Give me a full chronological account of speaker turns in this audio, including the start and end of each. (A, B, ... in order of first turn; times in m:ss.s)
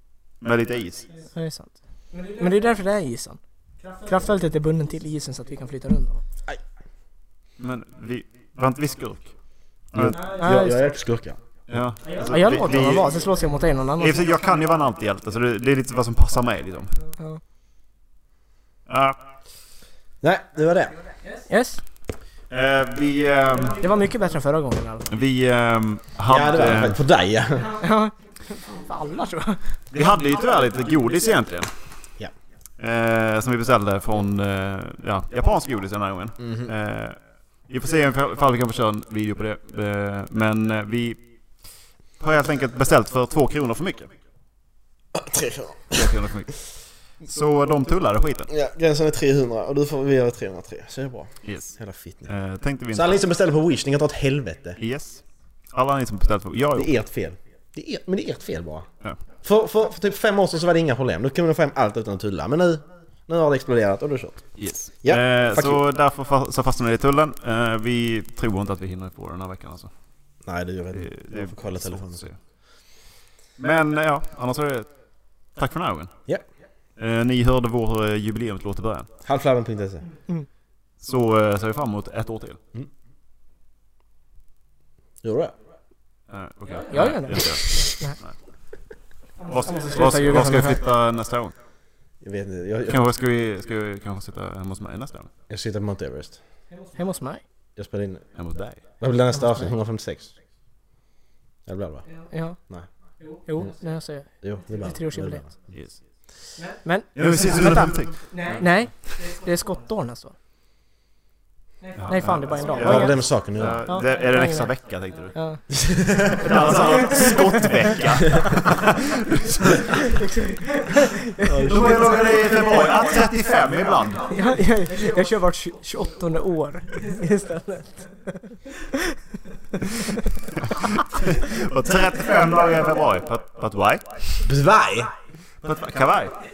0:00.4-0:01.1 A
0:01.3-0:01.7 B
0:02.2-0:03.4 B
0:04.0-0:06.2 B
0:07.6-0:09.3 A
0:09.9-0:10.4 A
0:10.0-0:11.4 C
0:10.2-0:10.8 B
0:11.7-0:13.1 A
0:12.2-0:14.2 B
0:14.0-0:17.0 A
0:18.9-0:19.2 A
0:20.2-0:20.9 C
0:21.5-0:21.8 B
0:22.5-0:23.8 A
0:23.8-0:25.1 B
0:25.1-0:27.0 A
0:26.3-0:27.7 C
0:27.8-0:29.6 B
0:29.9-0:31.7 A
0:32.8-0:37.2 A
0:36.4-0:36.7 C
0:37.7-0:41.2 A
0:42.2-0:44.1 A
0:45.1-0:46.2 C
0:45.9-0:46.7 A
0:47.2-0:48.5 A
0:48.5-0:52.3 C
0:51.4-0:53.2 A
0:52.9-0:54.8 C
0:54.8-0:56.9 A
0:56.8-0:58.9 C
0:59.4-1:04.5 C
1:04.6-1:09.9 A
1:05.0-1:05.8 C
1:10.4-1:12.2 C
1:10.9-1:12.4 A
1:13.6-1:14.9 A
1:15.6-1:16.1 A
1:17.0-1:19.1 A
1:19.2-1:20.0 C
1:21.0-1:22.6 A
1:25.2-1:25.5 C
1:26.3-1:28.3 A
1:26.9-1:28.2 B
1:29.4-1:31.6 A
1:29.7-1:30.8 B
1:32.2-1:33.0 C
1:32.9-1:35.3 A
1:35.5-1:36.4 C
1:36.9-1:37.4 B
1:37.8-1:38.2 C
1:38.4-1:38.8 A
1:39.0-1:40.3 C
1:41.7-1:42.0 C
1:42.3-1:42.6 B
1:43.5-1:45.4 B
1:44.4-1:45.5 C
1:46.7-1:50.3 B
1:47.2-1:48.6 A
1:52.0-1:55.4 A
1:52.1-1:53.3 B
1:52.8-1:53.8 C
1:53.9-1:54.7 B
1:55.3-1:55.6 B
1:55.7-1:56.5 C
1:56.4-2:00.0 A
2:00.0-2:02.8 B
2:01.5-2:02.0 C
2:01.6-2:04.3 A
2:04.3-2:09.2 B
2:09.7-2:10.3 B
2:11.0-2:14.4 A
2:14.4-2:15.1 C
2:15.6-2:16.4 A